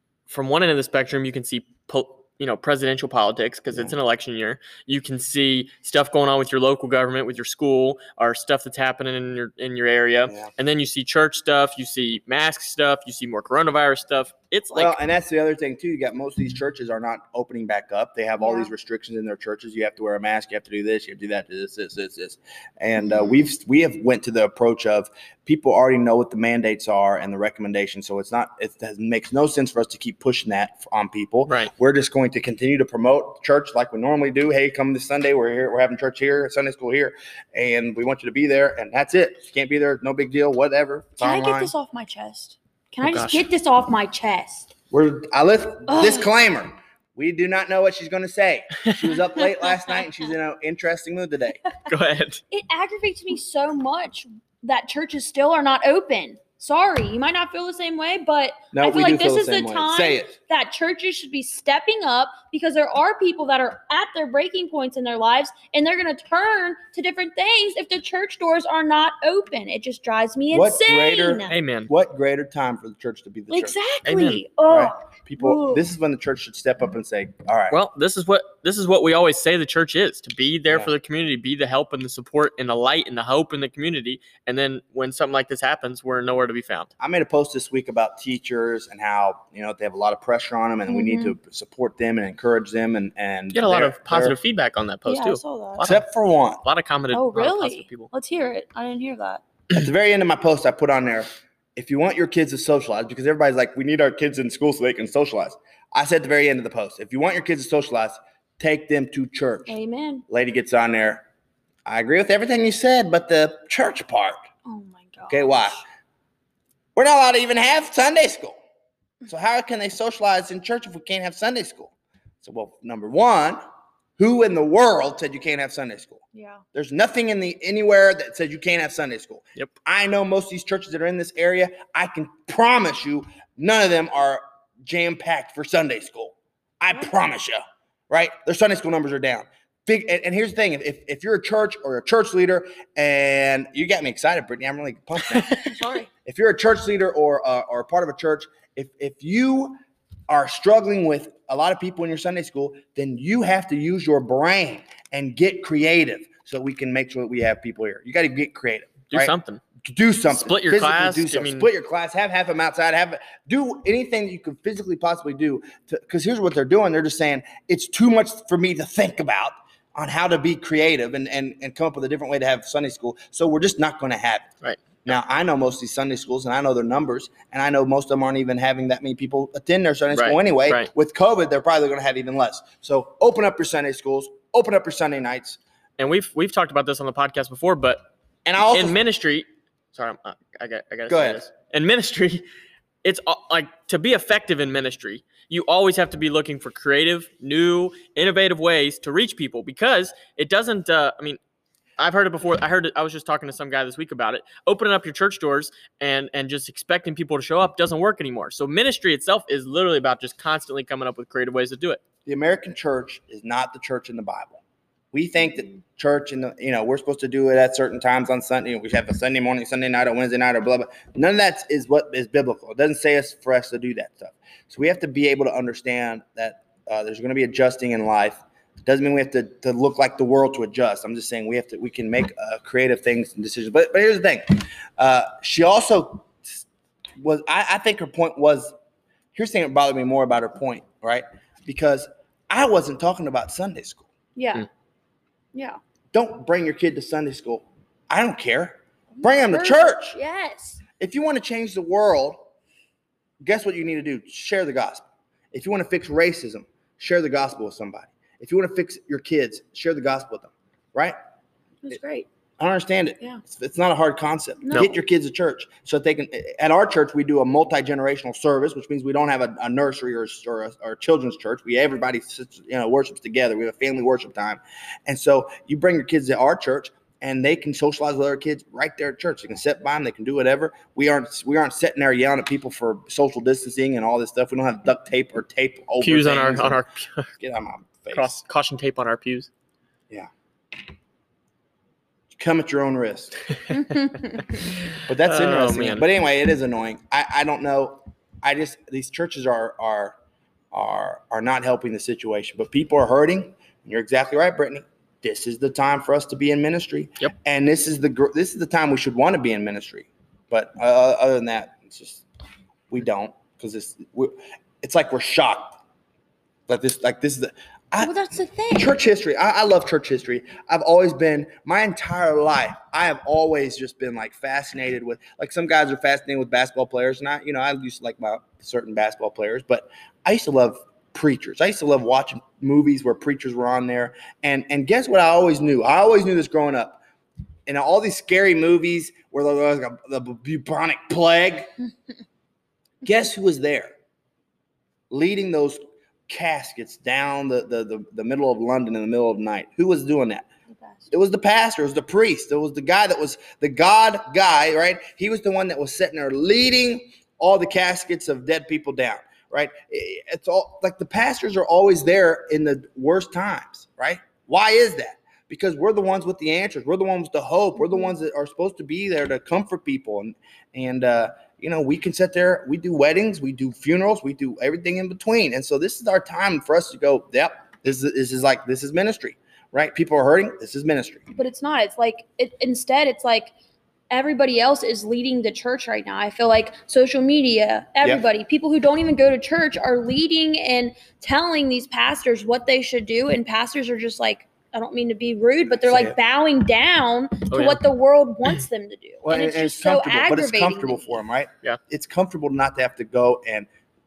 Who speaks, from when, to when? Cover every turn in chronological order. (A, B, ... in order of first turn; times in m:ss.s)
0:00.3-0:15.0 A
0:14.7-0:41.7 B
0:18.4-0:18.7 C
0:41.2-0:44.7 C
0:43.0-0:43.4 A
0:44.9-0:51.6 B
0:45.9-0:46.3 C
0:51.9-0:52.4 A
0:52.5-1:11.5 C
0:58.7-1:00.3 B
1:10.5-1:13.8 B
1:11.5-1:11.9 A
1:13.5-1:15.8 C
1:14.0-1:14.4 A
1:14.7-1:17.8 B
1:17.7-1:26.9 A
1:27.0-1:34.4 B
1:30.9-1:31.3 C
1:33.5-1:36.0 A
1:35.0-1:35.9 C
1:35.8-1:36.6 B
1:36.6-1:38.1 A
1:37.1-1:39.4 C
1:39.7-1:49.8 B
1:49.7-1:50.2 C
1:50.3-1:51.2 B
1:51.8-1:54.4 B
1:54.6-1:55.8 C
1:55.3-1:55.8 B
1:56.9-1:58.6 B
1:59.2-2:03.6 B
2:04.2-2:06.2 B
2:06.3-2:06.6 C
2:06.7-2:29.8 B
2:25.6-2:26.1 C
2:30.3-2:54.5 B
2:39.1-2:39.6 A
2:40.3-2:41.7 A
2:54.6-2:55.1 A
2:55.0-3:05.6 B
3:00.1-3:00.9 A
3:06.0-3:08.1 A
3:08.4-3:09.0 B
3:08.7-3:12.4 A
3:11.1-3:11.4 B
3:13.0-3:21.4 A
3:22.0-3:32.0 A
3:32.2-3:34.6 B
3:35.1-3:56.6 B
3:57.2-3:58.7 B
3:59.3-4:04.1 B
4:04.4-4:04.6 C
4:06.1-4:10.2 B
4:09.2-4:10.8 C
4:11.0-4:12.4 B
4:13.4-4:21.2 B
4:21.8-4:22.3 C
4:22.6-4:46.8 B
4:24.6-4:25.0 C
4:46.0-4:47.3 A
4:47.4-4:48.4 B
4:48.1-4:49.5 A
4:52.3-4:53.3 B
4:53.7-4:54.7 C
4:54.9-4:56.0 A
4:55.0-5:00.2 B
5:00.7-5:12.2 B
5:12.9-5:15.8 B
5:16.7-5:18.1 B
5:18.0-5:18.9 C
5:18.7-5:37.0 B
5:37.6-5:41.7 B
5:43.0-5:43.9 B
5:45.1-5:50.4 B
5:50.7-5:51.1 C
5:51.1-6:21.3 B
6:21.3-6:23.5 C
6:24.1-6:41.1 C
6:35.8-6:36.2 B
6:37.5-6:37.8 A
6:39.2-6:43.7 B